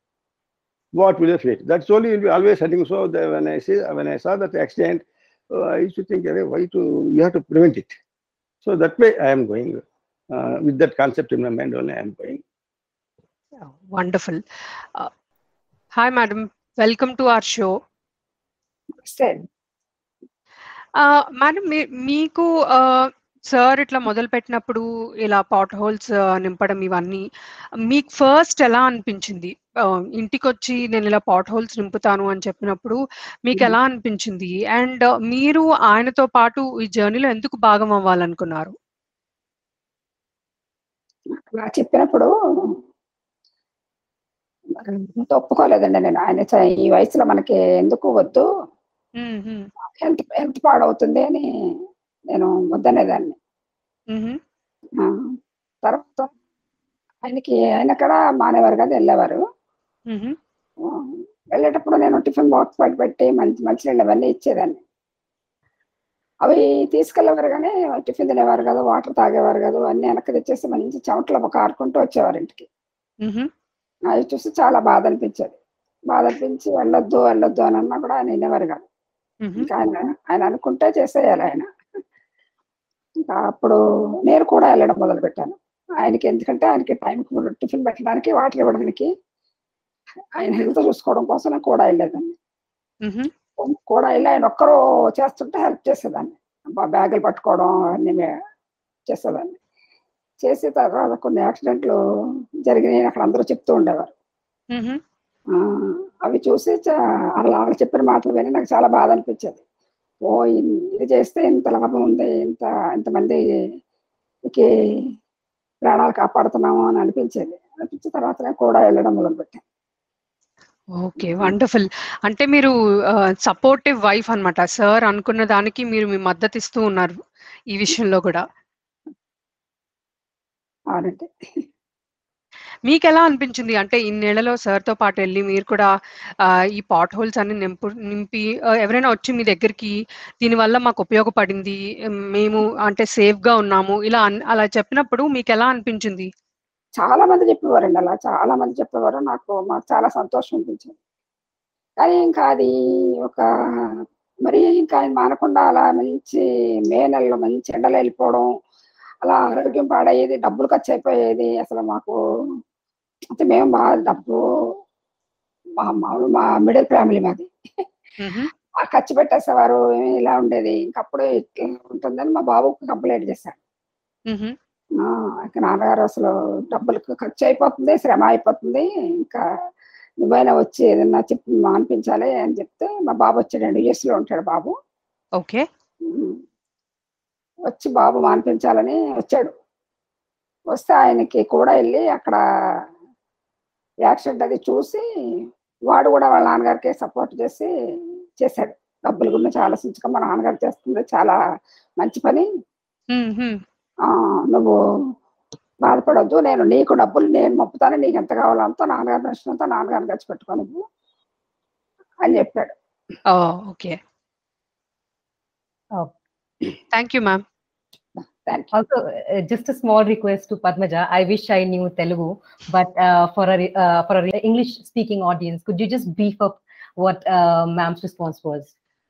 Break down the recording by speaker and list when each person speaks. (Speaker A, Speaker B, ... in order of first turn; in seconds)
Speaker A: 0.9-8.0, 8.6-12.4
Speaker B: 13.6-14.4, 15.9-17.8, 20.9-27.2, 27.8-38.7, 49.2-49.7, 54.1-54.4, 60.1-60.4, 73.2-73.5, 79.4-79.7, 93.0-93.3, 104.7-105.0, 120.9-127.2, 127.7-128.4, 132.8-146.3, 168.2-168.5, 174.3-174.6, 185.4-185.7, 203.1-203.6, 213.3-214.0, 216.9-217.4
Speaker C: 19.0-19.5, 41.4-42.3, 44.7-48.4, 50.0-51.4, 52.3-53.4, 55.8-56.3, 57.2-59.4, 60.8-64.8, 66.4-72.7, 74.1-75.5, 76.1-78.8, 79.6-81.7, 83.3-89.1, 90.4-92.3, 93.6-98.3, 99.1-99.6, 100.4-102.0, 102.7-104.1, 106.2-109.6, 110.2-113.4, 115.8-119.6, 121.2-121.5, 130.9-131.3, 147.0-150.9, 152.0-152.7, 154.4-158.5, 159.2-162.1, 163.3-164.4, 165.8-167.8, 168.8-173.6, 175.0-179.4, 180.2-184.7, 186.1-186.4, 187.7-189.5, 190.7-192.4, 194.1-195.0, 195.9-197.7, 198.4-201.4, 202.0-202.4, 204.1-204.7, 205.8-210.8, 212.2-212.7
Speaker D: 218.7-228.7